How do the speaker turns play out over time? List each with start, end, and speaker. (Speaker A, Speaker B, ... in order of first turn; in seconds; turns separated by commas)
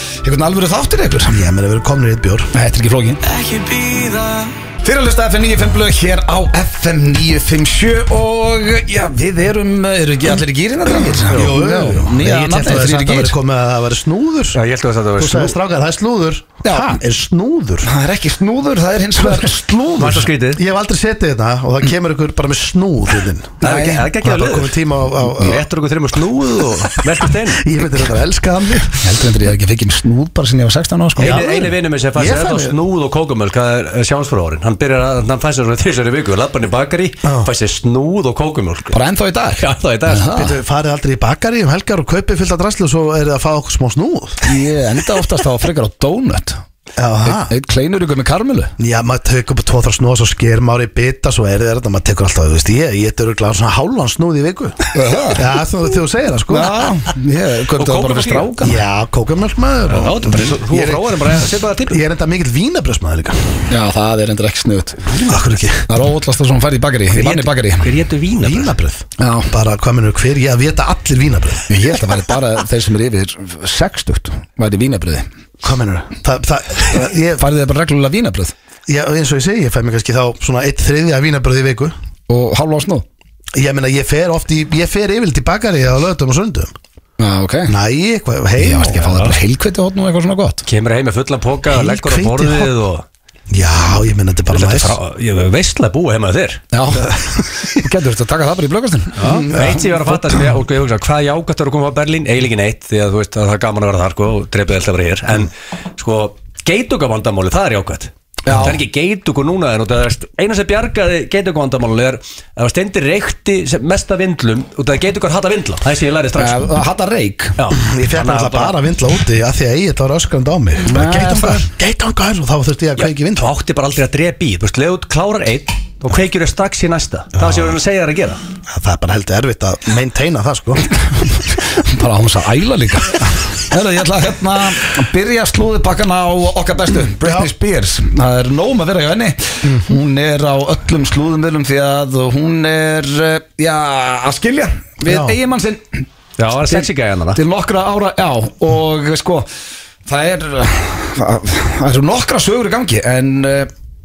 Speaker A: 0.2-1.4, Speaker B: 1.3-2.5, Speaker A: 2.5-13.4, Speaker B: 11.3-14.6, Speaker C: 14.5-15.6, Speaker B: 15.2-17.9, Speaker A: 16.6-17.0, Speaker A: 17.8-19.7, Speaker B: 19.2-25.6, Speaker C: 20.0-20.6, Speaker A: 23.6-24.1, Speaker C: 23.6-27.6, Speaker B: 27.6-29.0, Speaker A: 29.0-31.7, Speaker B: 31.2-31.6, Speaker C: 31.2-39.0, Speaker B: 32.1-32.8, Speaker B: 37.2-37.5, Speaker A: 38.9-40.6, Speaker C: 39.6-40.4, Speaker B: 40.3-44.5, Speaker A: 44.4-46.6, Speaker B: 47.0-47.5, Speaker A: 47.2-48.7, Speaker B: 48.8-56.9, Speaker A: 54.9-55.5, Speaker A: 56.5-58.8, Speaker C: 57.8-58.5, Speaker B: 58.6-61.0, Speaker C: 59.9-62.0, Speaker B: 61.9-63.7, Speaker A: 63.7-65.1, Speaker C: 65.2-65.4, Speaker B: 65.2-65.9, Speaker A: 65.9-67.9, Speaker C: 67.1-68.7, Speaker B: 68.4-71.7, Speaker A: 69.2-69.5, Speaker A: 71.7-75.3, Speaker B: 75.6-77.4, Speaker A: 76.9-78.5, Speaker B: 78.9-81.9, Speaker A: 82.3-83.1, Speaker B: 83.5-86.7, Speaker A: 87.2-87.7, Speaker B: 87.7-89.2, Speaker A: 88.6-90.6, Speaker C: 90.7-93.0, Speaker B: 91.7-92.8, Speaker B: 93.5-95.0, Speaker C: 94.5-96.7, Speaker A: 96.7-100.4, Speaker C: 99.2-116.7, Speaker A: 108.5-108.8, Speaker A: 116.4-117.6, Speaker C: 117.6-118.8, Speaker B: 117.8-123.5, Speaker A: 120.8-121.7, Speaker C: 123.0-128.4, Speaker B: 127.4-127.8, Speaker B: 128.7-130.9, Speaker A: 131.3-146.1, Speaker B: 137.2-137.5, Speaker B: 139.6-139.9, Speaker B: 145.1-145.4, Speaker C: 146.4-147.4, Speaker A: 146.6-149.5, Speaker A: 150.1-153.7